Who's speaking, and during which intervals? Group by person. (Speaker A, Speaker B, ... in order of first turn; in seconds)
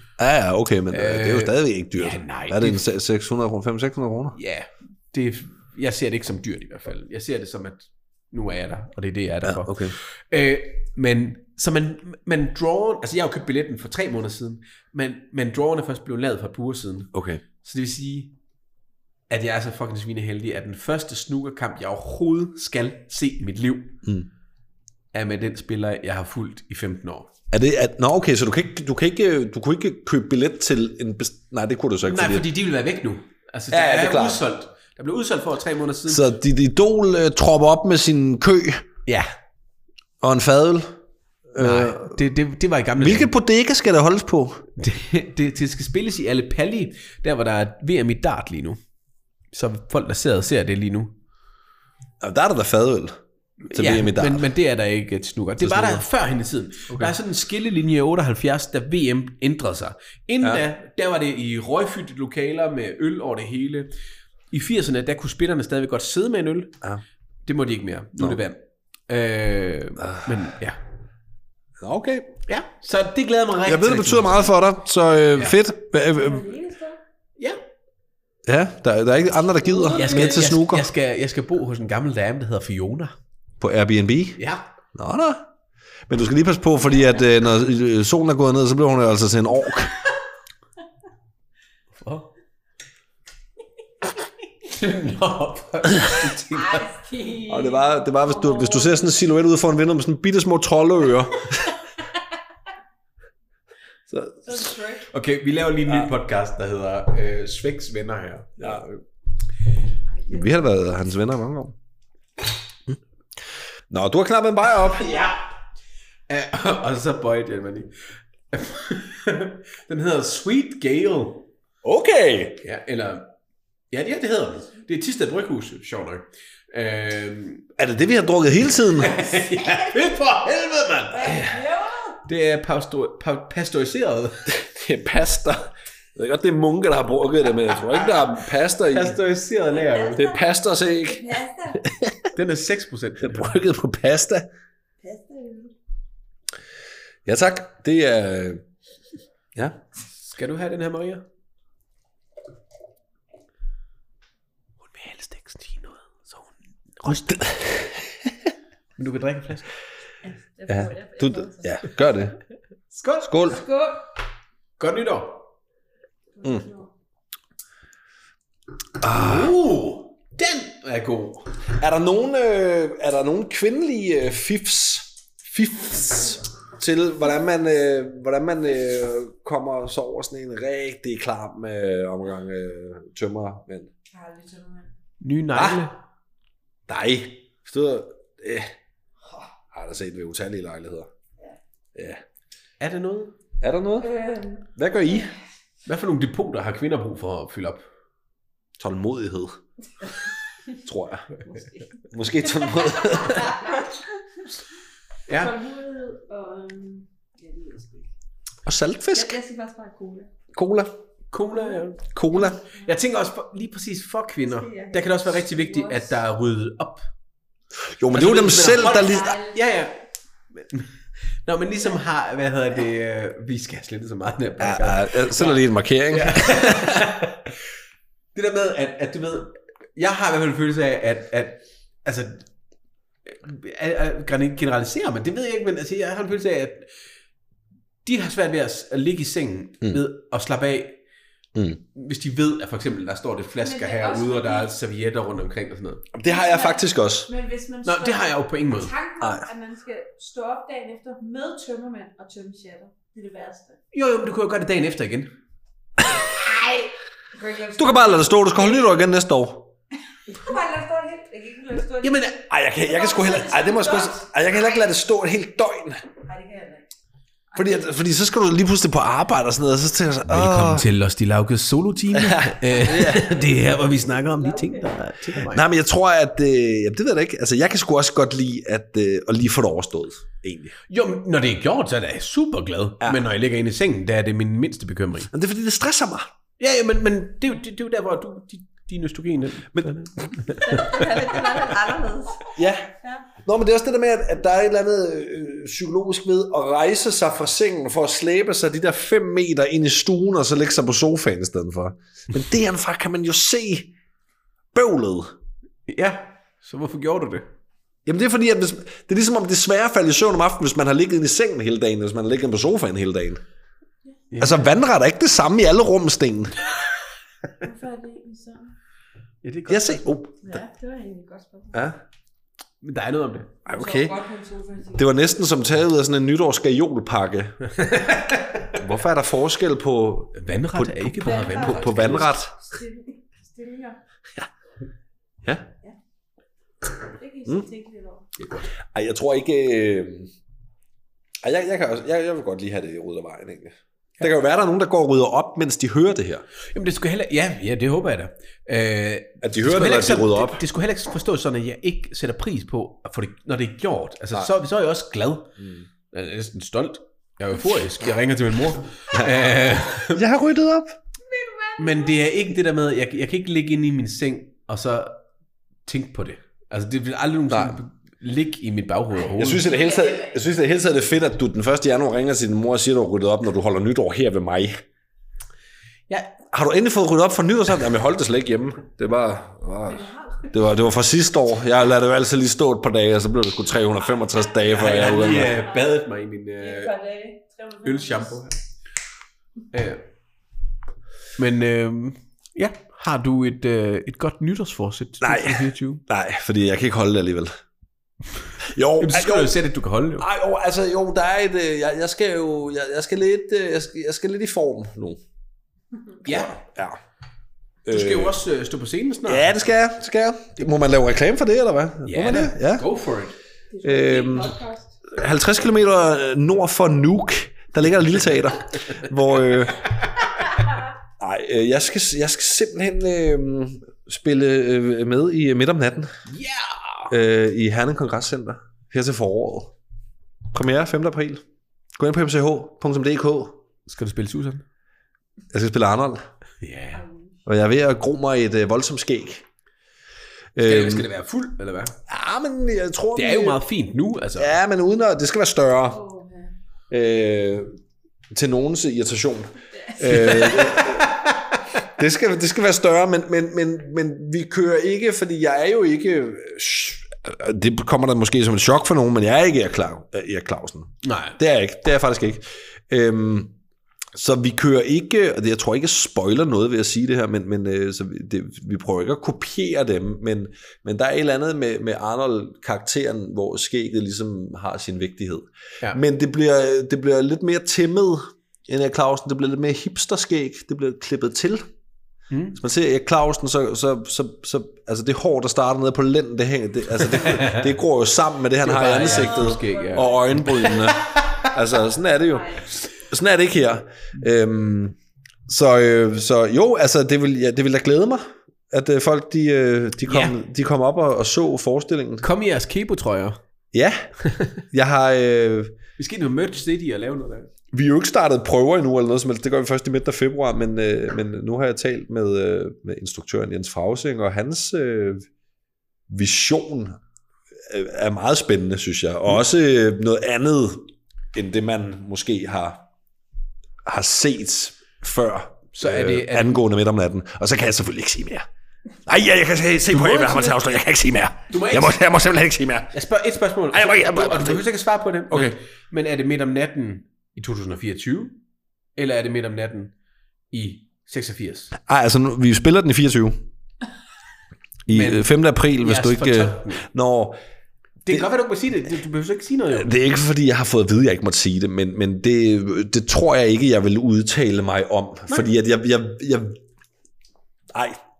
Speaker A: 0.2-4.4, 9.4-9.9, 17.1-17.4, 27.5-32.5, 33.7-34.4, 36.1-38.8, 40.2-40.9, 41.5-42.2, 43.0-44.6, 52.2-53.2, 53.7-54.5, 55.6-56.0, 56.9-57.1, 70.0-70.3, 71.8-72.3, 73.7-76.5, 78.5-80.8, 83.6-84.4, 84.9-85.5, 86.1-89.9, 97.5-101.8, 104.1-104.6, 110.3-111.7, 113.9-115.3, 121.8-122.6, 127.8-129.4, 134.5-139.2, 140.1-142.2, 143.2-144.5, 147.2-148.6, 149.5-149.8, 157.1-158.3, 160.7-162.4, 163.2-163.6, 169.0-169.5, 171.8-183.9, 185.5-185.8, 186.9-188.7, 189.7-191.1, 191.9-192.2, 193.6-194.1, 194.8-195.3, 198.8-199.6, 200.8-201.4, 202.1-203.6, 208.6-209.4, 210.5-210.9, 212.1-212.6, 217.9-219.4, 224.6-227.1, 241.5-241.8, 246.1-247.3, 249.2-249.4, 257.8-259.7, 262.5-266.0, 267.5-270.9, 272.1-273.4, 275.4-280.7, 285.3-286.3, 292.5-303.9, 304.7-305.3, 308.1-313.4, 314.4-316.6, 319.7-320.5, 321.7-322.0, 323.6-324.2, 324.9-327.8, 328.7-332.5, 335.4-335.7, 338.9-340.3, 341.4-346.4, 349.4-350.6, 355.6-355.8, 359.1-359.4, 360.1-361.0, 367.5-367.8, 369.4-374.8, 376.5-385.6, 395.2-397.5, 398.6-399.6, 400.2-405.2, 406.2-407.0, 407.9-408.4, 409.2-412.9, 413.8-420.0, 421.2-426.1, 427.1-429.7, 430.5-431.4, 432.0-433.6, 435.5-436.2, 437.4-439.4, 440.6-441.1, 442.1-443.6, 444.4-446.0, 446.9-447.7, 448.3-451.2, 451.9-463.5, 464.1-481.6, 482.5-494.9, 495.5-502.2, 503.7-504.1, 504.7-505.8, 507.7-515.3, 516.1-517.0, 517.6-522.9, 523.8-528.5, 529.0-532.9, 533.7-534.6, 535.3-535.5, 541.8-543.4, 544.9-547.4, 549.7-556.6, 557.7-558.0
Speaker B: 0.9-2.9, 4.3-18.3, 19.3-24.0, 25.1-27.3, 32.0-36.2, 41.6-43.3, 44.8-48.8, 49.5-51.1, 53.7-63.9, 64.5-66.8, 67.4-70.8, 72.5-74.5, 79.9-83.1, 84.4-84.6, 91.9-92.3, 94.6-96.9, 105.1-109.0, 116.3-117.9, 118.5-121.5, 122.6-123.3, 123.9-127.7, 128.9-131.5, 132.2-134.5, 137.9-138.2, 138.9-140.3, 142.3-143.6, 150.2-151.2, 154.8-157.4, 159.0-159.7, 162.9-163.3, 164.8-165.4, 169.1-171.5, 185.2-185.9, 192.8-193.3, 195.8-197.8, 205.3-205.6, 211.3-212.0, 212.6-217.1, 218.1-220.0, 220.6-220.9, 221.4-227.5, 228.3-232.4, 233.2-236.9, 238.0-241.0, 241.9-246.1, 247.8-248.9, 253.9-255.3, 262.0-262.4, 270.3-275.6, 280.9-285.3, 286.6-291.4, 305.9-307.5, 314.3-314.7, 319.4-320.2, 322.8-323.5, 327.7-328.7, 330.3-332.3, 346.7-355.5, 356.1-360.2, 361.8-365.2, 365.9-369.7, 384.7-386.9, 387.8-388.6, 389.7-390.0, 391.4-396.0, 399.0-400.3, 406.2-406.6, 407.9-409.5, 412.1-413.4, 426.3-427.1, 433.9-434.6, 436.6-437.0, 440.6-442.0, 443.1-444.5, 450.0-451.6, 461.0-461.4, 482.3-482.6, 487.1-487.7, 488.6-491.4, 500.1-500.3, 502.2-503.4, 504.2-504.6, 506.0-507.5, 525.7-526.6, 529.9-530.6, 531.5-532.0, 532.9-538.4, 539.0-539.9, 540.5-541.7, 544.9-546.8, 548.0-549.9
Speaker C: 75.9-77.0, 79.7-80.5, 96.5-99.1, 104.4-105.1, 110.2-110.5, 131.1-132.2, 139.8-140.4, 141.0-141.8, 145.0-145.7, 160.2-161.8, 163.4-164.1, 166.3-166.9, 184.1-184.9, 194.0-194.7, 201.4-201.8, 202.4-203.8, 205.3-208.1, 209.1-210.3, 211.6-211.8, 212.5-212.8, 214.4-216.1, 218.6-219.6, 243.6-244.7, 246.2-253.8, 256.3-258.9, 260.3-264.3, 266.2-266.9, 267.5-267.8, 274.2-274.9, 290.6-293.2, 317.6-318.7, 320.4-321.8, 323.7-325.1, 331.2-334.0, 337.1-338.3, 361.2-362.2, 369.6-370.4, 379.9-380.5, 386.6-388.4, 413.7-414.9, 445.9-446.5, 449.9-450.7, 489.0-490.9, 492.3-492.7